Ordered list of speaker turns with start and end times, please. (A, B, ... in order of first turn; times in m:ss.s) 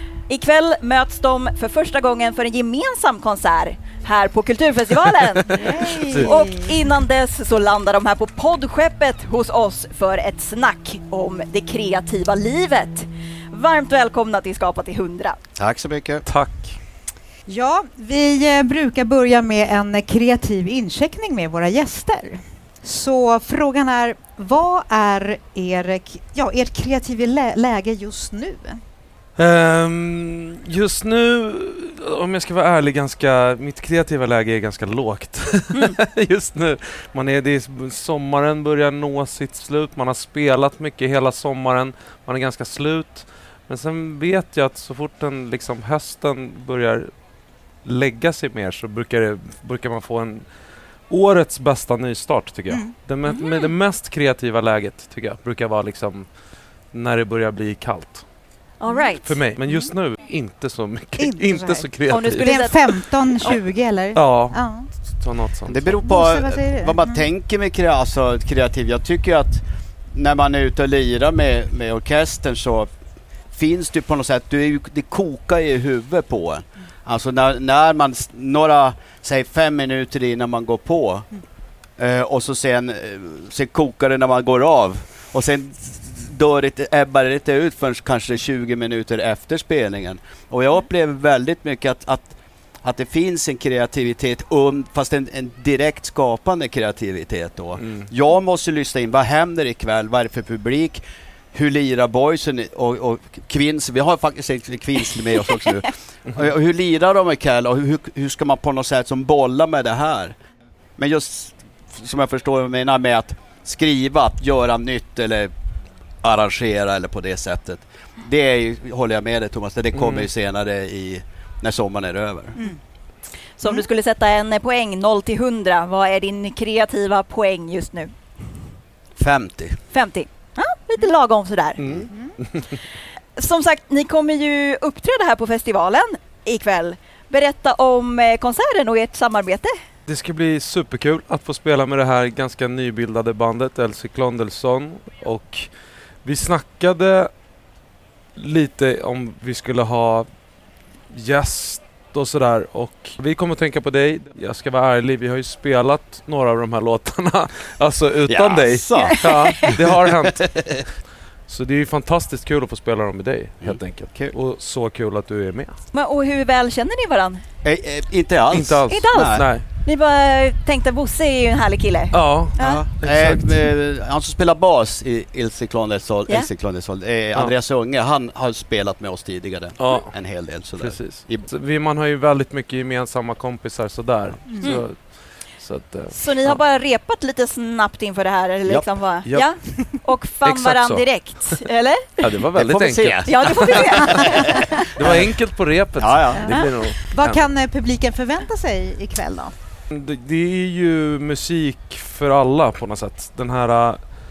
0:00.3-0:15.4 A
0:05.5-0:06.7 B
0:15.6-0:16.2 C
0:16.2-0:16.8 D
0:17.5-0:28.8 B
0:29.4-0:47.1 D
0:47.8-0:50.4 D
0:51.1-0:56.3 D
0:53.3-0:53.7 A
0:56.9-0:58.2 D
0:58.8-0:59.4 A
0:59.2-1:02.9 D
1:01.2-1:04.9 B
1:02.1-1:03.6 A
1:04.1-1:05.7 D
1:05.6-1:12.9 C
1:05.8-1:07.2 B
1:13.5-1:21.3 C
1:22.0-1:32.3 C
1:32.8-1:50.4 C
1:51.0-1:55.5 C
1:56.2-2:02.6 C
2:00.0-2:00.3 D
2:03.6-2:08.1 A
2:09.2-2:09.8 C
2:09.9-2:11.8 A
2:11.8-2:12.8 D
2:13.4-2:19.8 A
2:20.1-2:25.7 D
2:26.2-2:27.3 D
2:28.4-2:30.3 D
2:31.1-2:40.8 D
2:38.3-2:40.8 C
2:39.0-2:39.7 A
2:41.5-2:45.8 D
2:43.6-2:44.3 C
2:45.9-2:47.4 A
2:47.6-2:49.4 C
2:48.5-2:49.6 D
2:48.9-2:52.8 A
2:52.1-2:53.6 D
2:52.6-3:01.5 C
2:59.8-3:00.1 D
3:00.8-3:05.1 D
3:05.6-3:06.6 D
3:06.1-3:12.3 A
3:08.7-3:09.5 C
3:10.4-3:11.6 D
3:12.2-3:14.2 D
3:12.5-3:15.3 C
3:13.2-3:14.9 A
3:14.9-3:17.4 D
3:16.0-3:16.5 C
3:17.1-3:19.5 B
3:19.9-3:24.0 D